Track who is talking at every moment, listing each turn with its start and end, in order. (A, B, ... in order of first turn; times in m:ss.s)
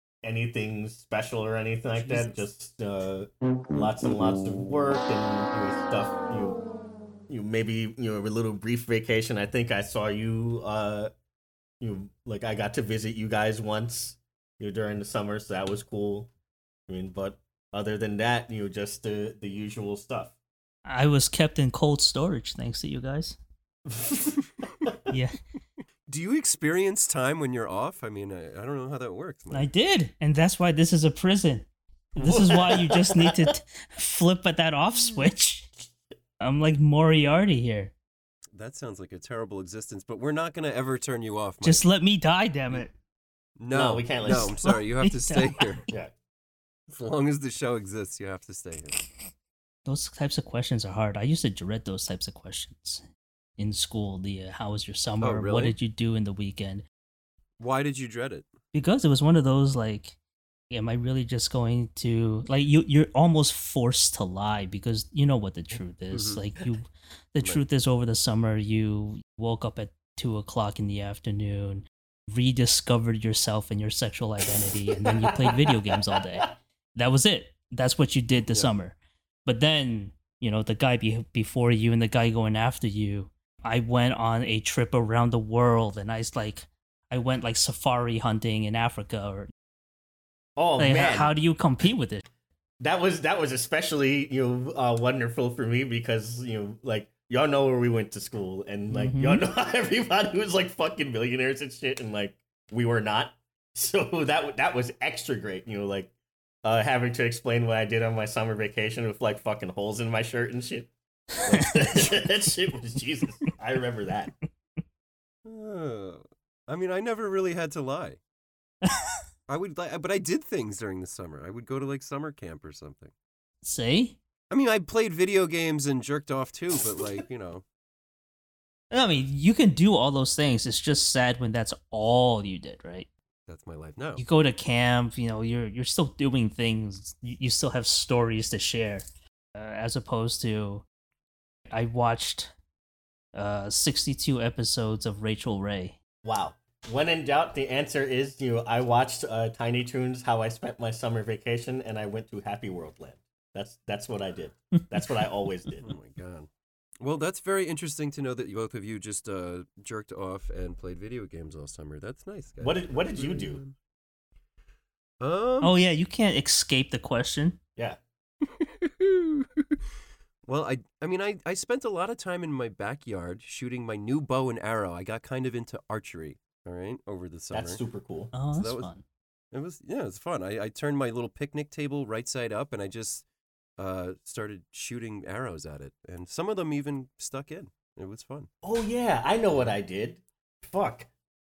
0:00.2-0:06.6 A
0:02.0-0:02.3 B
0:07.3-0:11.1 A
0:11.8-0:16.3 A
0:16.9-0:20.3 A
0:20.8-0:23.4 C
0:23.9-0:25.0 A
0:25.1-0:25.4 C
0:26.1-0:29.7 B
0:29.5-0:35.7 C
0:32.2-0:33.4 A
0:36.4-0:37.9 C
0:38.5-0:41.9 B
0:41.6-0:42.9 C
0:43.6-0:45.9 B
0:43.7-0:44.6 A
0:44.3-0:45.5 C
0:46.9-0:49.0 B
0:49.8-0:53.0 C
0:53.6-0:56.8 C
0:55.2-0:55.8 B
0:57.6-0:58.5 B
0:58.7-1:00.2 C
1:00.7-1:29.5 C
1:06.1-1:06.4 B
1:15.2-1:16.2 A
1:30.6-1:31.3 A
1:30.8-1:32.2 C
1:32.8-1:46.1 A
1:38.9-1:39.4 C
1:46.6-1:54.3 A
1:55.4-1:58.2 B
1:59.5-2:03.1 B
2:03.6-2:04.2 C
2:04.5-2:07.6 B
2:08.9-2:13.1 C
2:13.5-2:14.2 B
2:14.2-2:19.0 C
2:19.6-2:20.8 C
2:21.7-2:22.5 C
2:23.3-2:26.0 C
2:26.2-2:35.9 A
2:35.8-2:36.5 B
2:37.0-2:43.8 B
2:42.6-2:43.6 A
2:45.2-2:45.8 B
2:45.6-2:47.6 C
2:48.6-2:49.6 B
2:50.4-2:57.8 B
2:57.5-2:58.3 A
2:58.3-2:59.0 C
2:58.6-2:58.9 B
2:59.5-3:03.2 B
3:03.8-3:08.5 B
3:08.6-3:11.1 A